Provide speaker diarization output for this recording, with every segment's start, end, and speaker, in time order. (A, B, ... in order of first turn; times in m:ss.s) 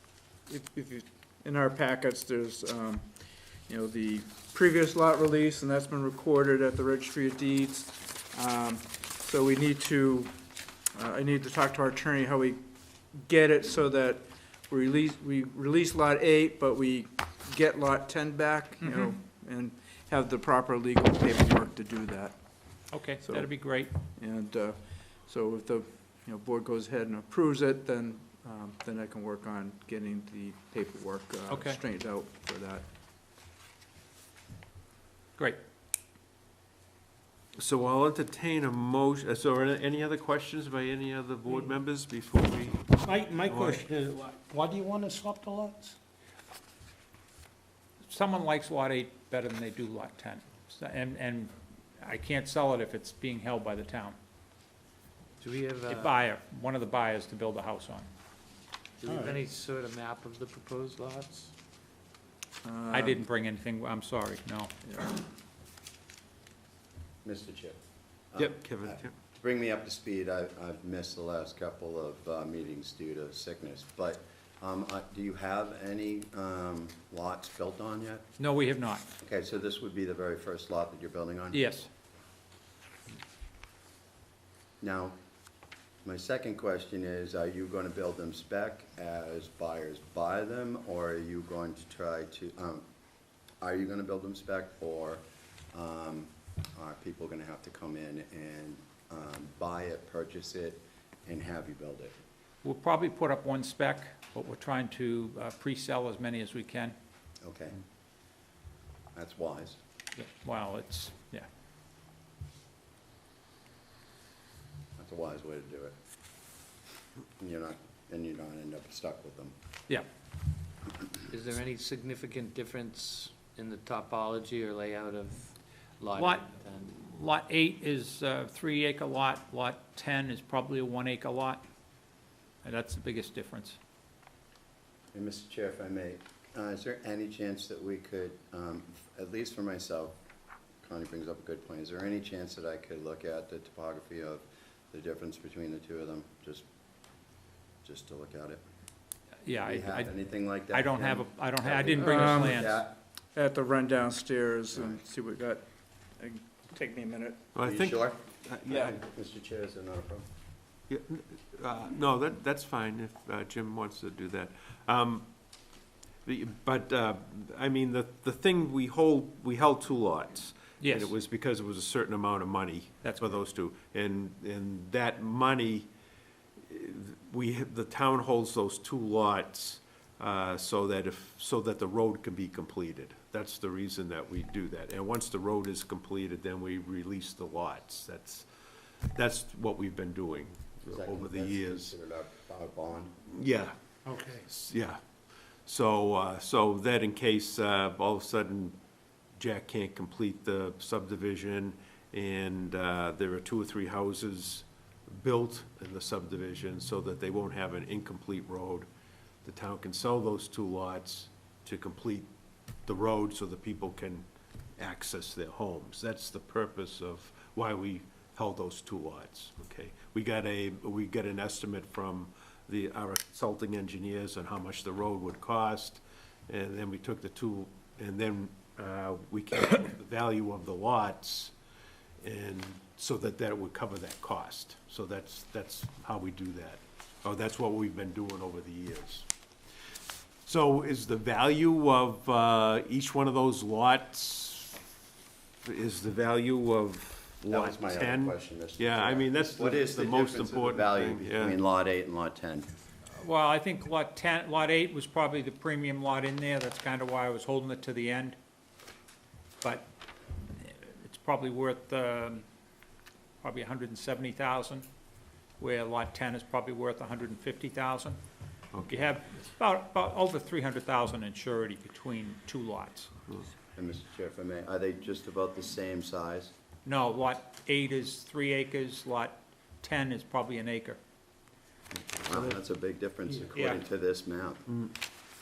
0:00.4-0:10.3 A
0:10.9-0:32.8 A
0:22.9-0:23.9 B
0:37.6-0:43.8 C
0:43.0-0:46.0 D
0:48.0-0:54.2 B
0:55.4-0:56.1 E
0:55.9-0:58.1 B
0:59.0-1:01.5 E
0:59.0-0:59.4 D
1:02.6-1:03.2 A
1:02.9-1:04.7 B
1:04.9-1:05.2 A
1:07.2-1:07.8 F
1:08.3-1:18.2 F
1:08.4-1:09.1 C
1:18.4-1:19.1 B
1:19.2-1:21.7 F
1:21.5-1:21.9 B
1:24.8-1:25.1 F
1:26.0-1:32.8 F
1:33.6-1:42.2 F
1:42.6-1:46.9 B
1:47.4-1:47.8 F
1:49.1-1:49.8 F
1:50.2-1:51.5 B
1:55.0-1:55.9 F
1:57.4-1:59.5 F
2:01.3-2:06.9 E
2:06.1-2:11.6 B
2:12.6-2:13.8 B
2:15.1-2:20.2 F
2:20.8-2:26.6 F
2:27.8-2:28.6 F
2:29.4-2:30.1 B
2:29.6-2:32.9 F
2:30.7-2:32.7 B
2:31.9-2:37.4 A
2:37.5-2:38.9 C
2:37.6-2:40.2 F
2:40.9-2:45.3 C
2:46.2-2:55.9 C
2:50.8-2:51.1 B
2:56.7-3:08.4 C
3:09.1-3:11.9 C
3:10.9-3:13.1 F
3:13.3-3:15.0 C
3:15.6-3:18.8 C
3:19.4-3:28.9 C
3:29.4-3:32.3 C
3:32.8-3:34.2 C
3:34.8-3:51.5 C
3:52.2-3:59.3 C
4:00.4-4:04.8 C
4:05.6-4:11.6 C
4:07.5-4:12.7 F
4:13.1-4:18.4 B
4:19.6-4:19.9 B
4:20.6-4:22.4 B
4:23.4-4:24.9 B
4:25.6-4:28.2 B
4:28.7-4:29.1 C
4:28.9-4:33.1 B
4:33.8-4:36.5 F
4:36.8-4:41.0 B
4:42.2-4:44.7 F
4:43.5-4:43.8 B